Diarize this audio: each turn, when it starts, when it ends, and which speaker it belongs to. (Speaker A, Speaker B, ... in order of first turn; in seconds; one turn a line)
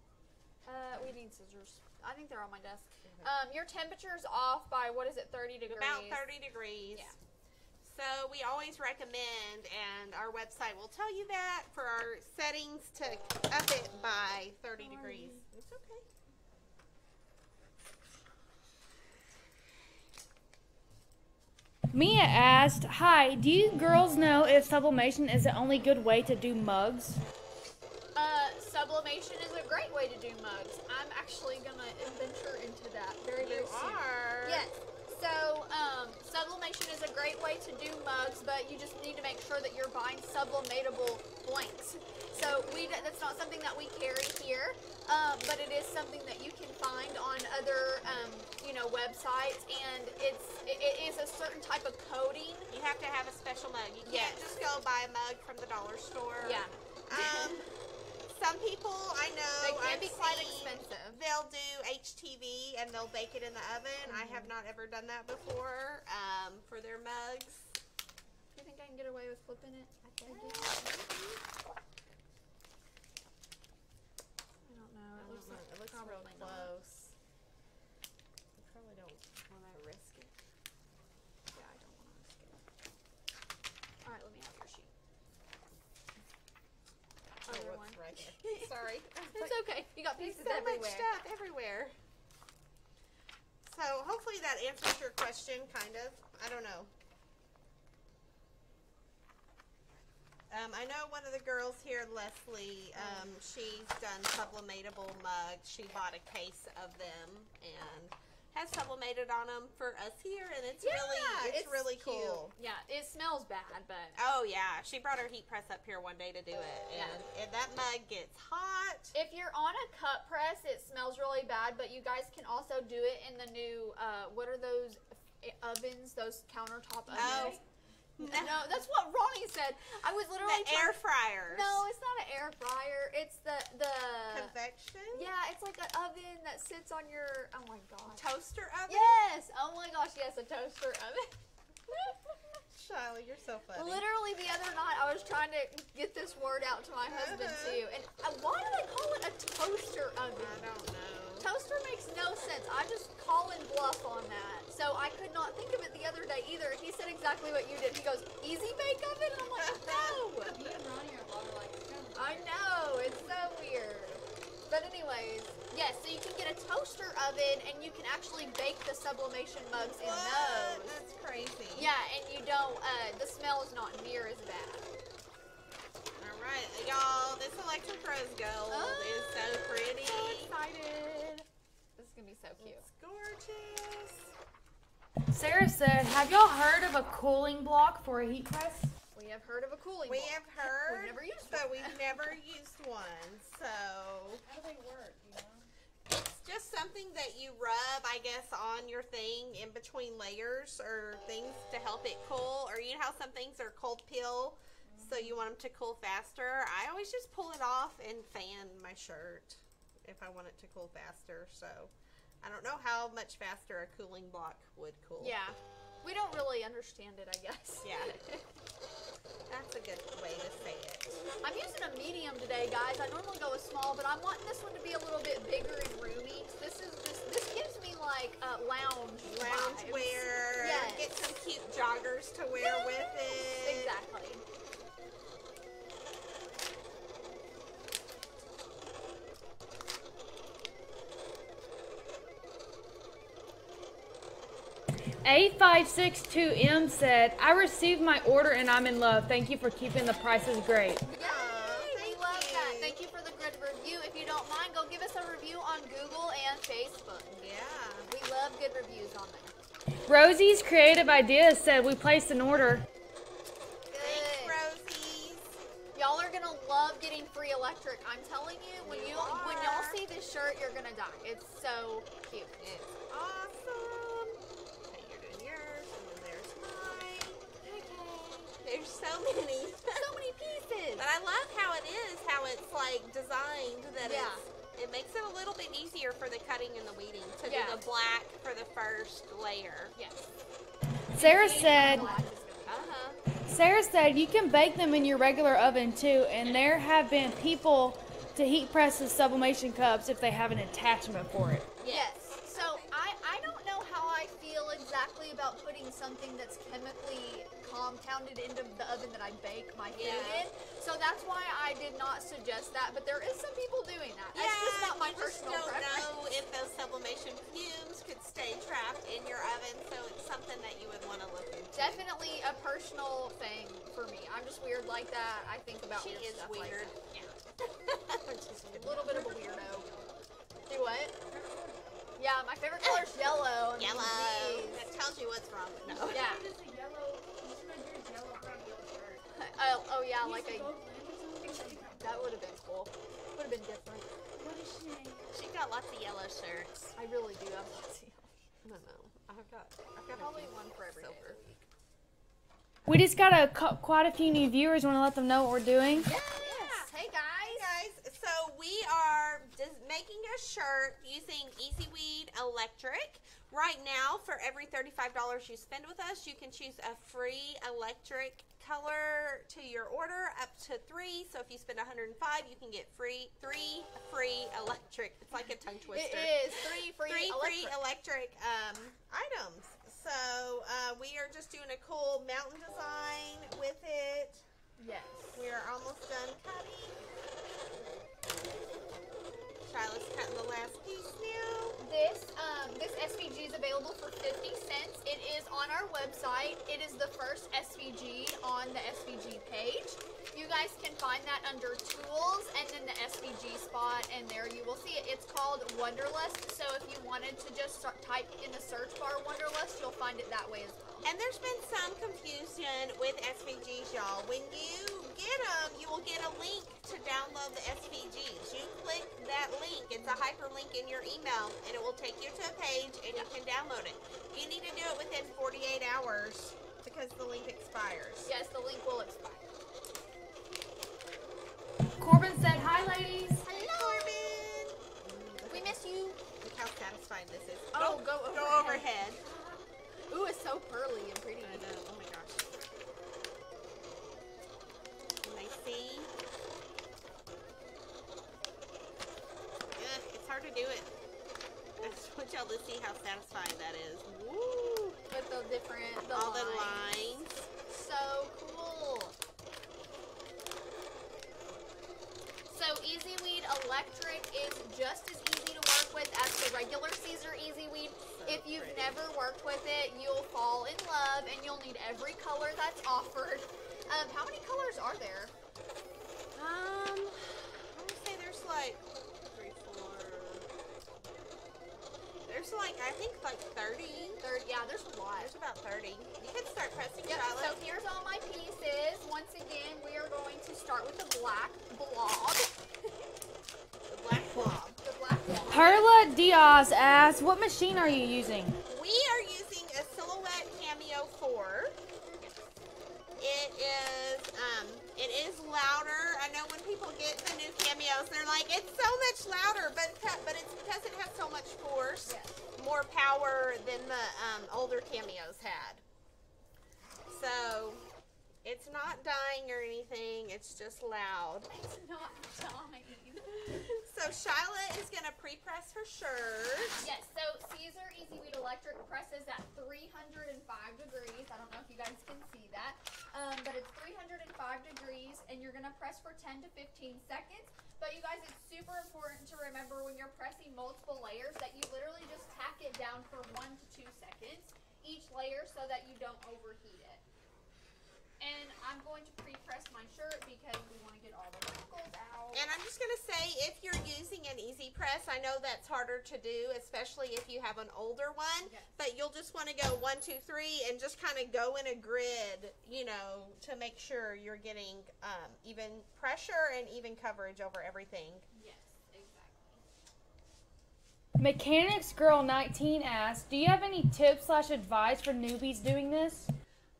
Speaker A: 0.6-6.3
Speaker B: 3.0-3.3
Speaker B: 5.7-7.1
Speaker B: 7.8-16.0
Speaker A: 14.8-15.4
Speaker C: 21.9-27.2
Speaker A: 28.1-52.7
Speaker B: 33.4-34.7
Speaker B: 42.3-43.1
Speaker B: 52.7-57.7
Speaker A: 54.0-54.5
Speaker A: 56.4-57.7
Speaker B: 58.3-67.8
Speaker A: 59.6-61.2
Speaker A: 64.0-64.5
Speaker A: 68.5-70.8
Speaker B: 70.2-71.4
Speaker A: 74.6-76.7
Speaker B: 75.2-77.1
Speaker B: 78.5-80.3
Speaker A: 81.5-82.6
Speaker A: 84.0-84.9
Speaker B: 87.4-91.9
Speaker A: 87.5-88.8
Speaker A: 89.3-91.1
Speaker B: 93.6-96.9
Speaker B: 100.5-112.5
Speaker A: 102.9-103.3
Speaker A: 110.8-114.2
Speaker B: 114.2-119.1
Speaker A: 116.9-117.2
Speaker A: 119.1-127.6
Speaker D: 127.1-127.6
Speaker B: 127.1-127.6
Speaker B: 128.2-128.6
Speaker A: 128.2-130.9
Speaker B: 130.4-131.8
Speaker A: 131.5-134.5
Speaker B: 134.3-135.3
Speaker A: 135.1-138.2
Speaker B: 138.1-139.2
Speaker A: 138.9-142.3
Speaker B: 142.7-144.0
Speaker A: 143.7-150.7
Speaker B: 147.1-147.8
Speaker B: 150.3-151.5
Speaker A: 151.4-160.5
Speaker B: 159.6-160.6
Speaker D: 160.5-163.3
Speaker A: 162.1-171.0
Speaker B: 169.7-171.9
Speaker A: 171.7-174.9
Speaker B: 176.2-180.5
Speaker A: 178.7-182.8
Speaker B: 182.6-184.3
Speaker C: 185.3-188.9
Speaker A: 189.1-191.9
Speaker B: 190.1-194.4
Speaker D: 194.4-195.7
Speaker B: 196.1-211.9
Speaker D: 204.8-205.4
Speaker B: 212.4-215.4
Speaker A: 215.2-218.4
Speaker B: 217.8-218.2
Speaker B: 219.5-221.2
Speaker A: 221.4-231.3
Speaker B: 229.2-233.9
Speaker A: 232.5-234.4
Speaker C: 245.2-251.0
Speaker A: 251.0-257.3
Speaker B: 251.2-253.0
Speaker B: 257.3-258.1
Speaker A: 258.1-259.5
Speaker C: 260.1-262.8
Speaker B: 263.9-265.6
Speaker A: 263.9-264.6
Speaker A: 265.9-272.6
Speaker B: 268.8-270.0
Speaker B: 272.6-280.1
Speaker A: 277.8-278.4
Speaker A: 279.9-281.1
Speaker B: 281.0-289.9
Speaker A: 284.0-284.4
Speaker A: 287.4-287.8
Speaker A: 289.9-290.2
Speaker C: 291.1-292.1
Speaker A: 291.1-292.9
Speaker B: 292.7-293.2
Speaker C: 293.4-301.7
Speaker B: 301.8-302.9
Speaker A: 301.9-316.1
Speaker B: 309.9-310.5
Speaker B: 314.3-322.1
Speaker A: 321.7-327.4
Speaker B: 325.9-326.9
Speaker B: 327.8-329.2
Speaker A: 328.7-329.9
Speaker D: 328.8-330.3
Speaker A: 330.7-331.1
Speaker D: 331.2-332.1
Speaker A: 332.2-334.9
Speaker B: 332.8-336.2
Speaker D: 335.9-339.2
Speaker A: 336.1-336.4
Speaker A: 339.3-340.8
Speaker D: 340.2-342.4
Speaker A: 341.4-344.1
Speaker D: 344.3-345.3
Speaker B: 345.3-346.9
Speaker A: 347.0-348.3
Speaker B: 348.6-351.4
Speaker A: 350.1-351.6
Speaker C: 352.9-356.1
Speaker A: 355.9-357.7
Speaker B: 356.1-384.4
Speaker A: 375.9-377.8
Speaker A: 384.8-385.4
Speaker B: 385.3-387.0
Speaker B: 389.6-391.8
Speaker A: 391.8-411.1
Speaker B: 411.0-428.3
Speaker A: 428.2-429.6
Speaker C: 432.0-433.4
Speaker A: 433.4-434.2
Speaker B: 433.4-439.2
Speaker A: 435.5-436.2
Speaker A: 437.7-438.9
Speaker A: 440.1-441.6
Speaker B: 441.4-442.6
Speaker B: 445.2-446.1
Speaker B: 449.7-450.9
Speaker B: 451.8-455.0
Speaker A: 455.1-457.0
Speaker B: 456.1-457.5
Speaker A: 457.6-459.1
Speaker A: 462.5-475.3
Speaker B: 468.1-469.0
Speaker B: 476.3-480.4
Speaker B: 482.2-484.2
Speaker A: 484.2-485.3
Speaker B: 485.1-487.7
Speaker A: 487.0-492.6
Speaker B: 493.9-494.8
Speaker A: 494.8-495.9
Speaker C: 495.5-498.6
Speaker B: 498.7-501.8
Speaker A: 502.2-502.4
Speaker B: 503.2-515.8
Speaker A: 512.0-512.4
Speaker B: 517.1-517.9
Speaker B: 518.4-521.5
Speaker A: 521.5-523.8
Speaker B: 523.7-526.8
Speaker A: 526.8-547.0
Speaker A: 548.2-552.5
Speaker B: 552.3-568.2
Speaker A: 558.4-558.7
Speaker A: 568.3-569.6
Speaker C: 571.2-576.3